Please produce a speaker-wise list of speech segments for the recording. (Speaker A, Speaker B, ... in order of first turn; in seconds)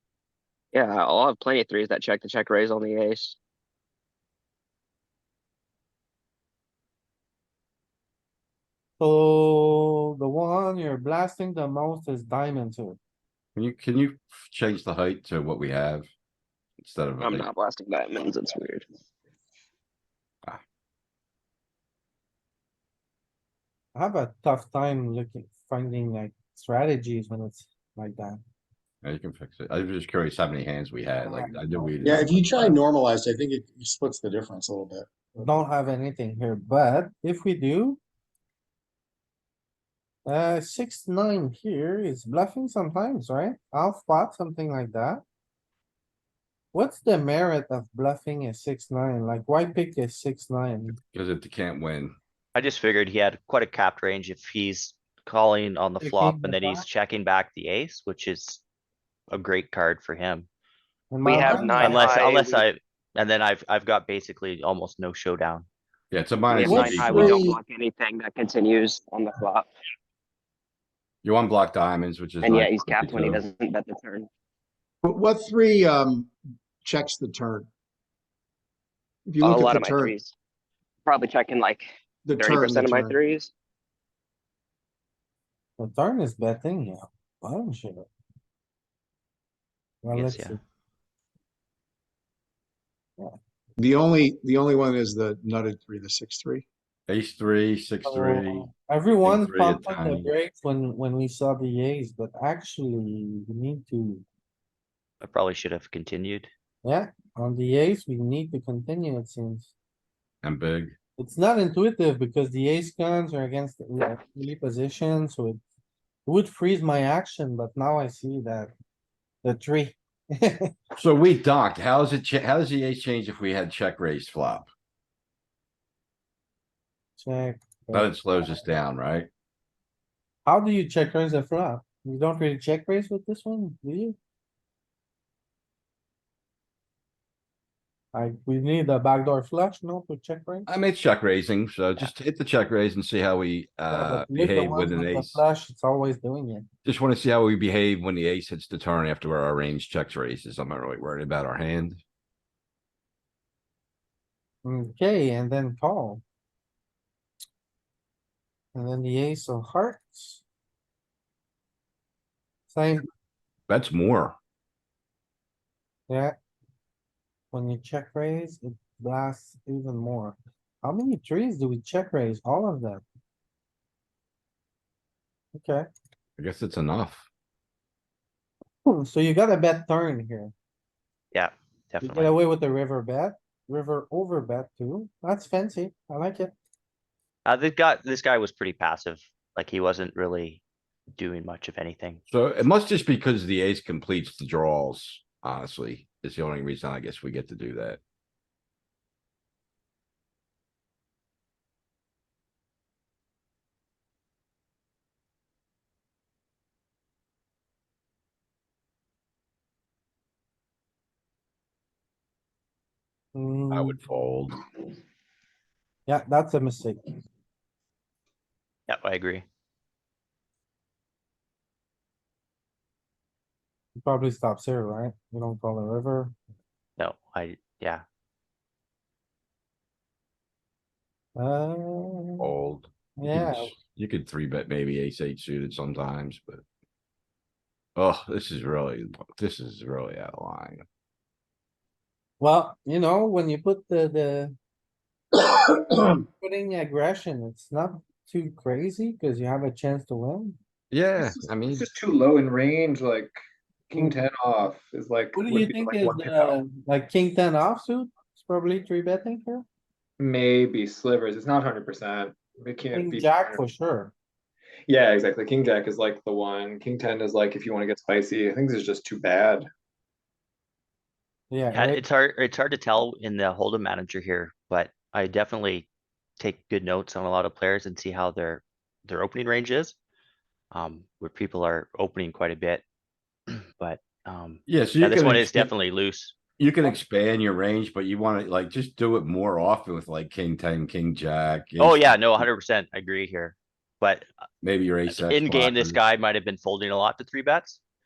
Speaker A: 0.7-3.4, 17.2-18.9, 61.2-62.7, 66.5-69.7, 72.4-74.3, 79.4-80.3, 81.1-83.5
Speaker B: 9.0-13.0, 23.9-28.4, 31.2-32.8, 35.4-38.0, 40.3-45.2, 46.7-51.0, 56.0-56.9, 61.1-62.0, 66.7-67.2, 85.8-88.1, 90.0-90.6, 98.0-104.2, 106.8-109.7, 111.2-115.6, 116.3-118.7, 119.4-120.7, 127.2-128.1, 130.5-134.2, 138.1-140.7, 143.9-146.7, 154.6-156.2, 158.7-160.4, 162.7-163.1, 166.1-166.3, 167.5-173.0, 175.6-175.9, 178.9-180.5, 182.0-186.5, 213.3-214.0, 216.1-217.2, 224.0-226.3, 231.4-232.5, 233.2-233.8, 242.4-244.6, 246.4-250.6, 255.3-259.6, 262.9-264.1, 271.5-272.0
Speaker C: 13.6-16.1, 16.8-17.5, 29.0-32.7, 51.1-52.1, 66.1-67.4, 71.2-73.5, 97.1-98.7, 99.2-100.3, 110.4-111.0, 121.0-124.7, 127.9-129.3, 140.7-145.4, 146.8-152.0, 163.7-164.4, 176.4-177.3, 192.3-198.0, 213.7-214.6, 232.4-236.6, 238.0-240.8, 250.9-251.8, 284.7-285.7, 286.6-292.4, 294.6-296.0
Speaker D: 32.0-35.1, 66.9-67.6, 75.0-77.7, 79.3-80.2, 82.2-83.2, 93.8-96.7
Speaker E: 52.5-58.6, 59.3-60.5, 61.8-65.7, 90.1-90.6, 105.2-106.5, 181.3-182.3, 187.4-190.6, 191.1-192.2, 218.9-219.4, 227.0-228.0, 271.7-275.9, 276.4-279.9, 280.7-282.8, 283.5-286.4, 291.8-294.3, 295.1-297.8
Speaker F: 251.2-253.4, 253.9-256.6, 260.2-263.6, 264.9-269.7